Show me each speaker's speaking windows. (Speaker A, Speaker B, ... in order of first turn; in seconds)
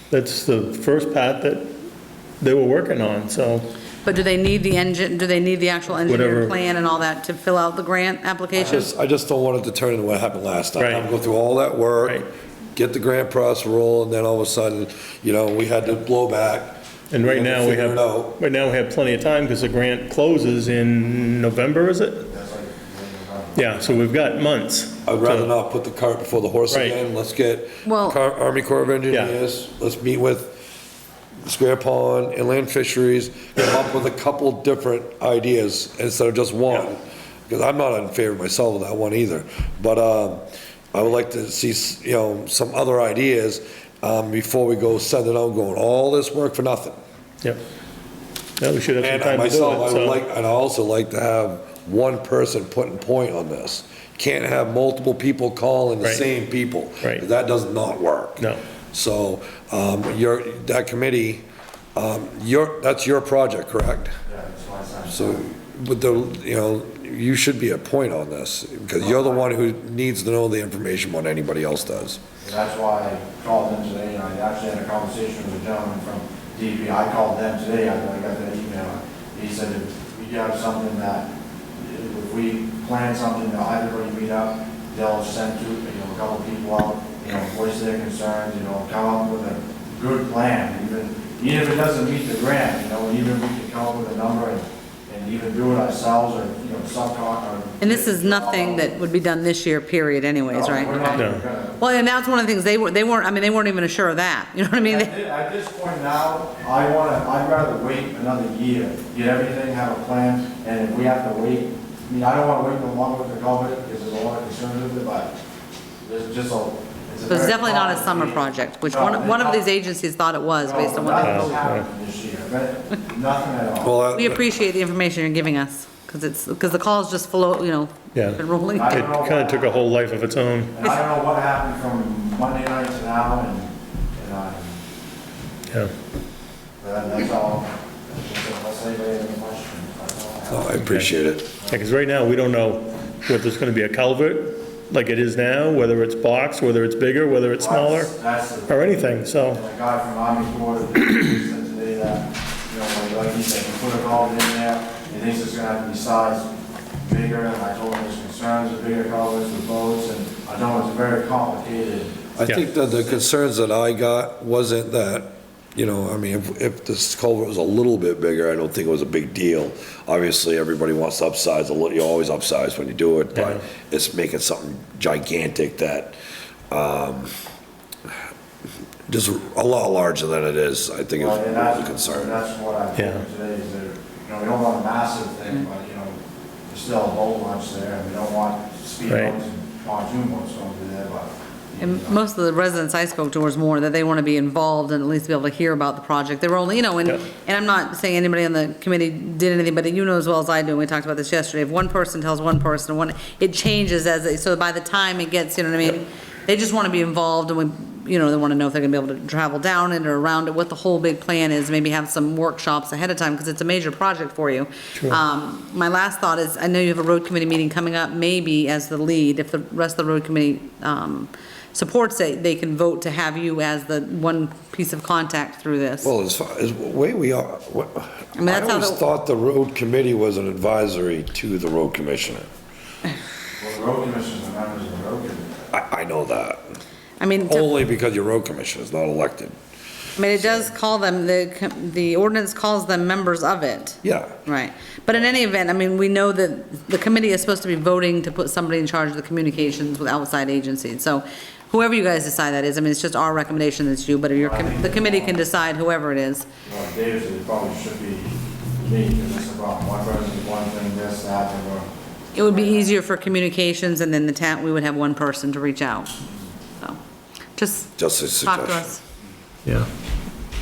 Speaker A: 0.1-1.7, 2.4-3.7, 6.1-6.5, 10.8-11.1, 17.1-22.3, 23.5-25.5, 26.7-27.0, 29.1-29.4, 48.6-50.2, 101.1-101.4, 121.2-121.9, 128.1-130.7, 140.8-141.1, 141.7-148.1, 148.7-149.6, 173.3-173.6, 182.9-183.2, 189.1-189.4, 269.6-269.9
Speaker B: 4.0-8.9, 27.8-28.2, 97.8-105.1, 117.3-121.6, 124.1-129.0, 191.8-226.1, 228.3-229.0, 237.2-237.7, 240.2-256.4, 262.3-266.1, 267.6-269.0
Speaker C: 8.5-12.2, 12.7-18.4, 25.1-30.6, 31.4-47.0, 49.0-61.4, 62.0-64.1, 65.1-72.2, 123.8-124.4, 140.5-141.5, 162.4-176.2, 176.7-177.4, 179.1-182.4, 226.0-232.5, 235.7-236.6, 237.4-239.5, 244.0-244.4, 268.0-268.9
Speaker D: 22.3-24.1, 64.3-65.4, 69.0-69.5, 72.4-98.9, 100.5-101.8, 104.8-115.3, 116.0-119.6, 120.6-123.9, 128.7-129.9, 130.8-134.8, 136.8-140.8, 147.5-156.5, 157.0-163.1, 181.2-186.2, 186.7-192.2, 233.6-235.6, 254.3-255.4, 256.6-261.9, 262.4-262.9